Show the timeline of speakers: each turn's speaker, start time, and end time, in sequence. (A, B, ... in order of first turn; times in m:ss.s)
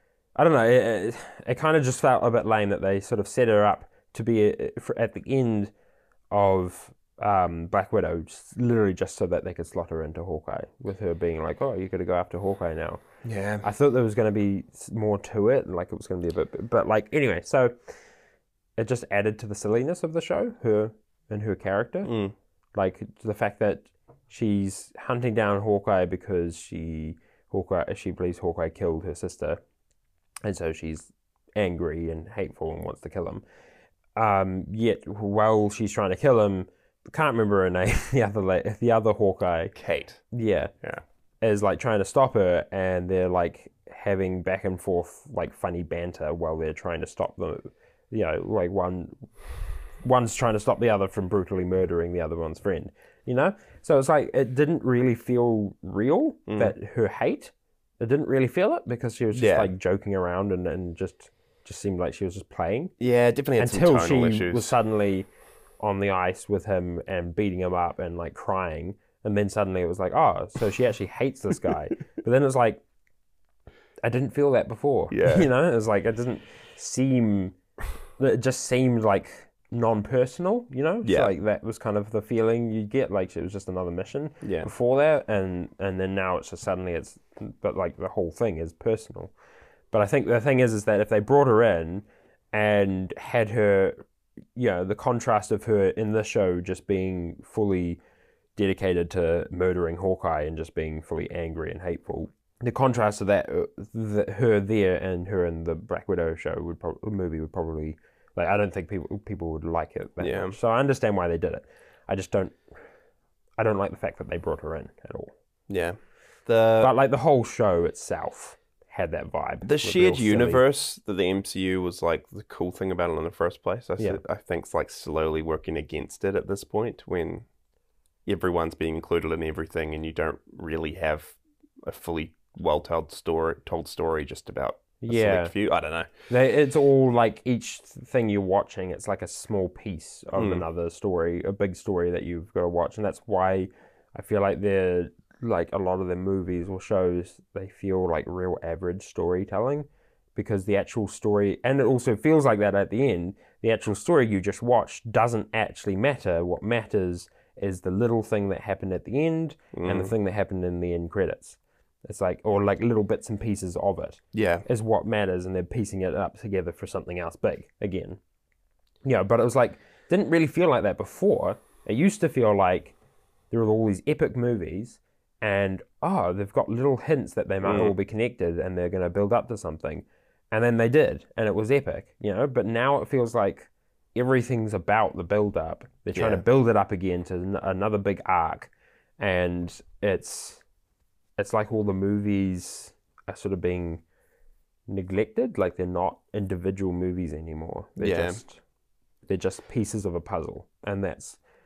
0:00.4-0:05.7 A
0:06.3-0:13.0 A
0:13.2-0:13.7 B
0:13.6-0:17.8 A
0:18.8-0:22.1 A
0:22.0-0:22.3 B
0:22.7-0:29.6 A
0:30.4-0:33.4 A
0:34.2-0:39.7 A
0:39.7-0:40.2 B
0:40.3-0:40.7 A
0:41.4-0:49.3 A
0:50.0-1:02.9 A
0:56.5-0:56.7 B
0:59.3-0:59.7 B
1:03.0-1:04.8 B
1:03.6-1:05.3 A
1:05.8-1:12.8 A
1:14.0-1:17.6 A
1:15.1-1:15.5 B
1:18.2-1:29.3 A
1:21.0-1:21.3 B
1:24.4-1:24.7 B
1:29.9-1:38.0 A
1:38.6-1:52.6 A
1:50.2-1:50.6 B
1:53.6-1:55.3 A
1:55.7-1:56.9 B
1:56.8-2:00.6 A
1:59.6-2:07.4 B
2:08.2-2:16.1 B
2:15.0-2:15.5 A
2:16.3-2:48.2 A
2:20.3-2:20.6 B
2:39.7-2:40.1 B
2:44.3-2:44.6 B
2:49.0-2:52.9 A
2:53.5-3:10.6 A
2:57.6-2:57.9 B
3:06.1-3:06.4 B
3:11.4-3:14.0 A
3:14.9-3:18.6 A
3:18.0-3:18.4 B
3:19.3-3:21.4 A